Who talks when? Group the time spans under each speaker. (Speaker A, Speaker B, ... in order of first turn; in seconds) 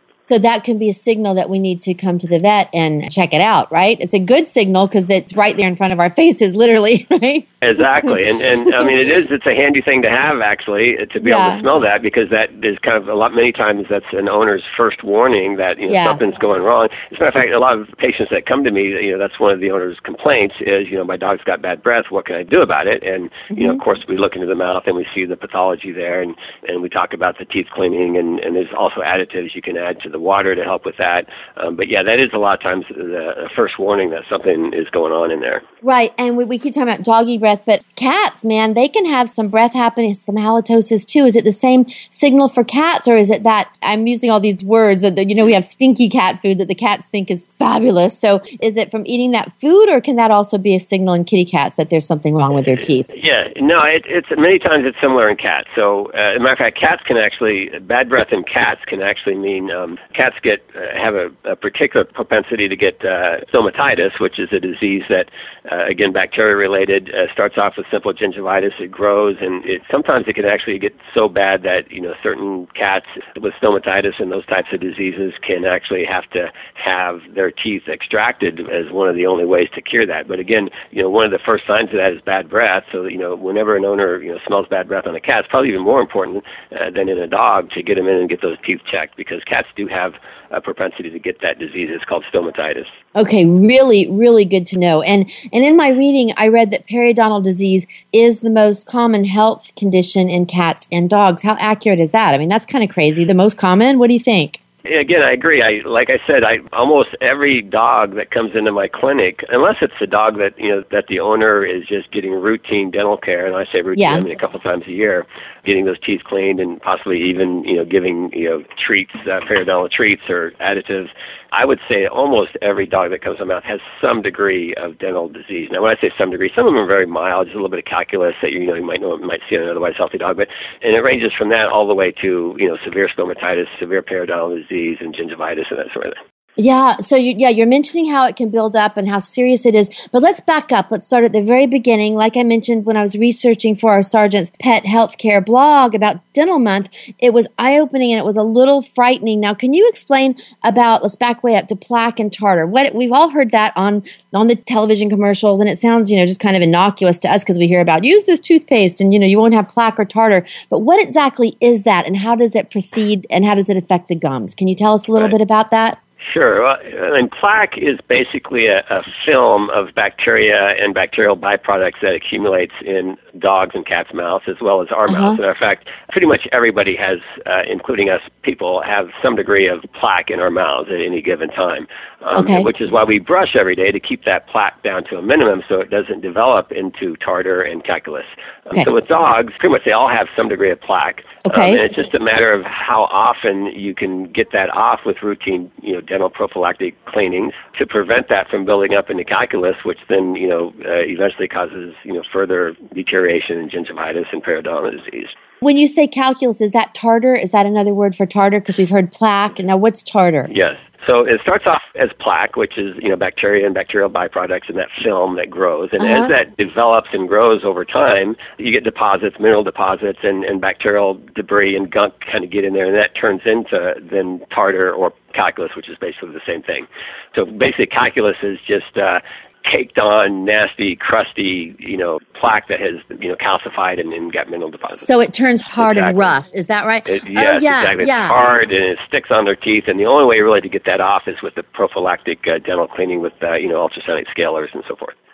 Speaker A: 0.2-7.5, 11.2-11.6, 15.9-16.2, 23.5-23.8, 35.8-53.1, 93.2-104.6, 114.0-114.3, 136.6-166.0, 175.1-175.4, 182.3-182.7, 191.5-191.8, 205.6-210.5, 216.0-216.3, 234.9-238.3
Speaker B: 7.6-35.6, 53.1-92.9, 104.9-136.2, 166.2-205.3, 210.5-235.1, 235.8-236.4, 237.1-245.2